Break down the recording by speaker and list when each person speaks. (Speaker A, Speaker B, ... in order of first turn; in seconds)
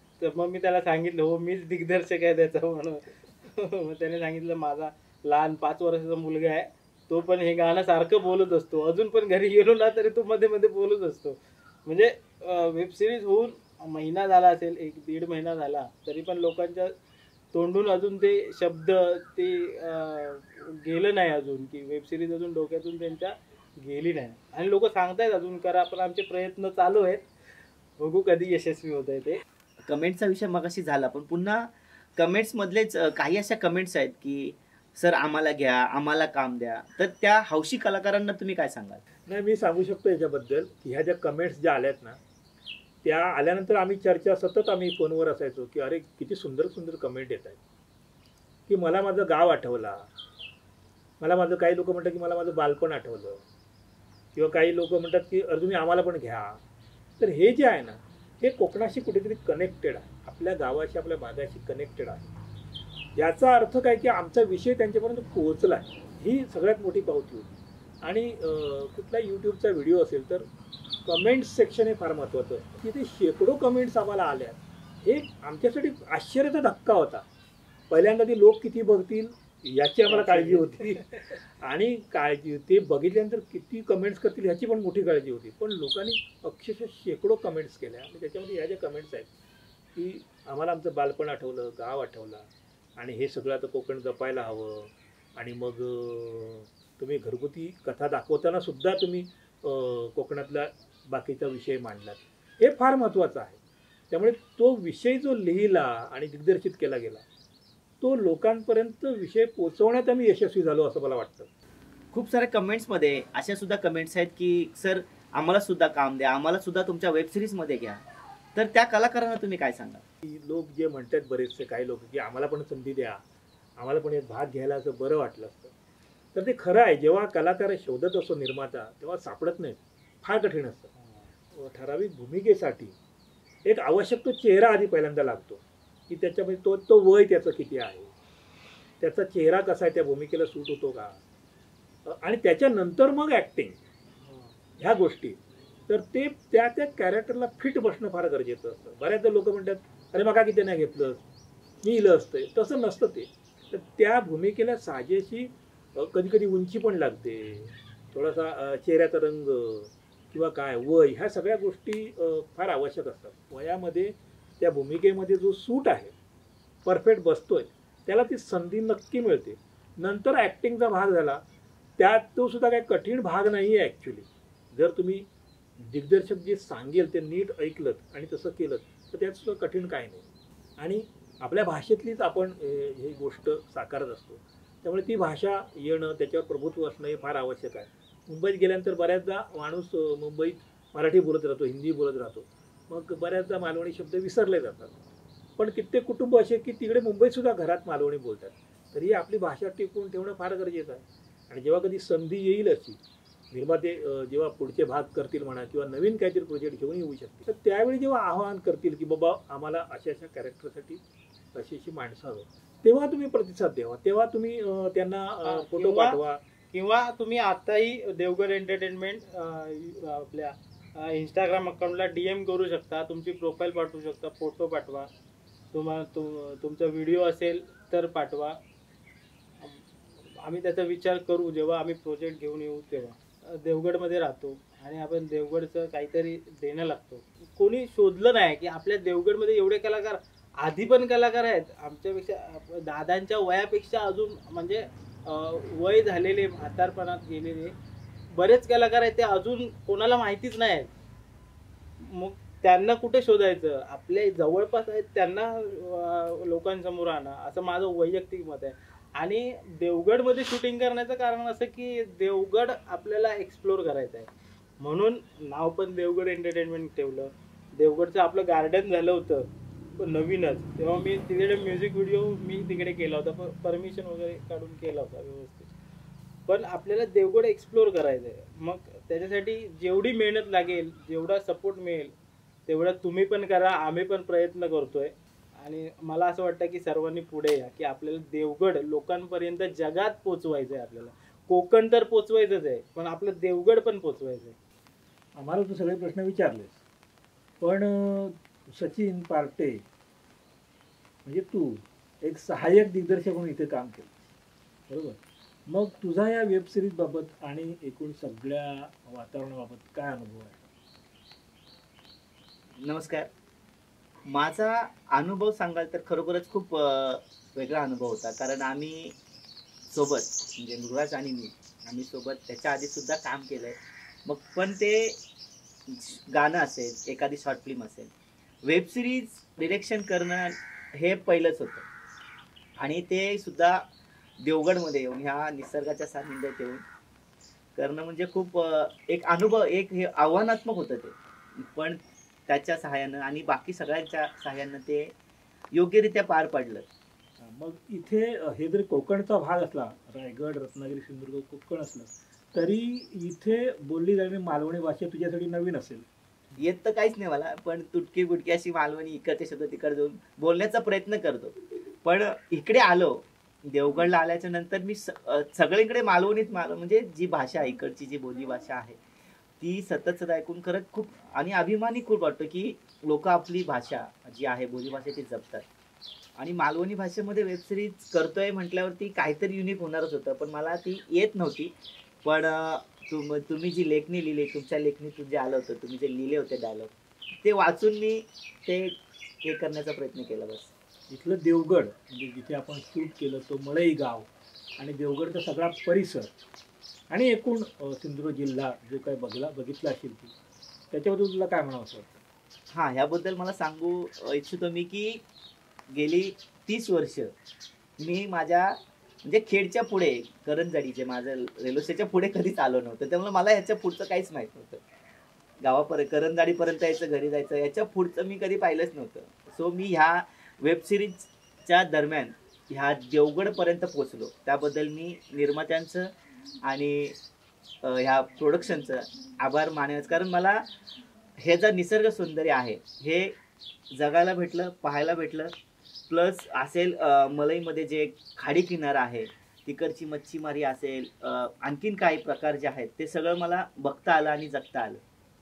Speaker A: 0.2-16.9, 17.5-27.2, 28.0-29.4, 80.1-81.2, 131.0-131.3, 144.3-144.5, 215.4-216.2, 216.7-225.1, 225.7-228.6, 229.6-247.8, 248.3-250.9, 252.0-264.3, 264.8-275.7, 276.5-282.1, 282.7-294.6
Speaker B: 29.9-39.0, 112.1-118.0, 118.5-120.0, 312.8-313.3, 314.3-319.2, 319.9-325.2, 325.9-328.1, 328.6-331.9, 332.8-333.8, 334.4-336.8, 337.8-345.1, 345.7-346.9, 356.6-369.0, 369.6-375.7, 376.4-381.7, 382.2-386.9, 387.4-390.7, 402.7-405.2, 405.9-407.3, 408.0-414.8, 415.6-426.1, 426.6-427.2, 427.8-430.6, 431.4-433.4, 433.9-435.5, 436.1-445.0
Speaker C: 39.3-42.2, 43.0-47.6, 48.7-50.1, 51.2-53.4, 54.3-56.6, 57.2-62.3, 63.1-70.5, 71.0-77.2, 77.9-81.0, 81.6-89.3, 90.0-103.6, 104.1-107.2, 108.0-111.5, 120.3-123.2, 123.8-125.7, 126.3-130.9, 131.5-132.9, 133.7-138.1, 139.0-141.2, 142.1-143.8, 144.8-151.2, 151.8-166.1, 166.8-171.4, 172.0-175.3, 175.8-180.3, 180.8-194.9, 195.6-203.0, 203.5-211.0, 211.5-216.4, 295.4-296.8, 297.6-299.9, 301.2-304.1, 304.9-310.7, 347.4-356.1, 391.1-396.3, 397.1-400.3, 400.9-402.2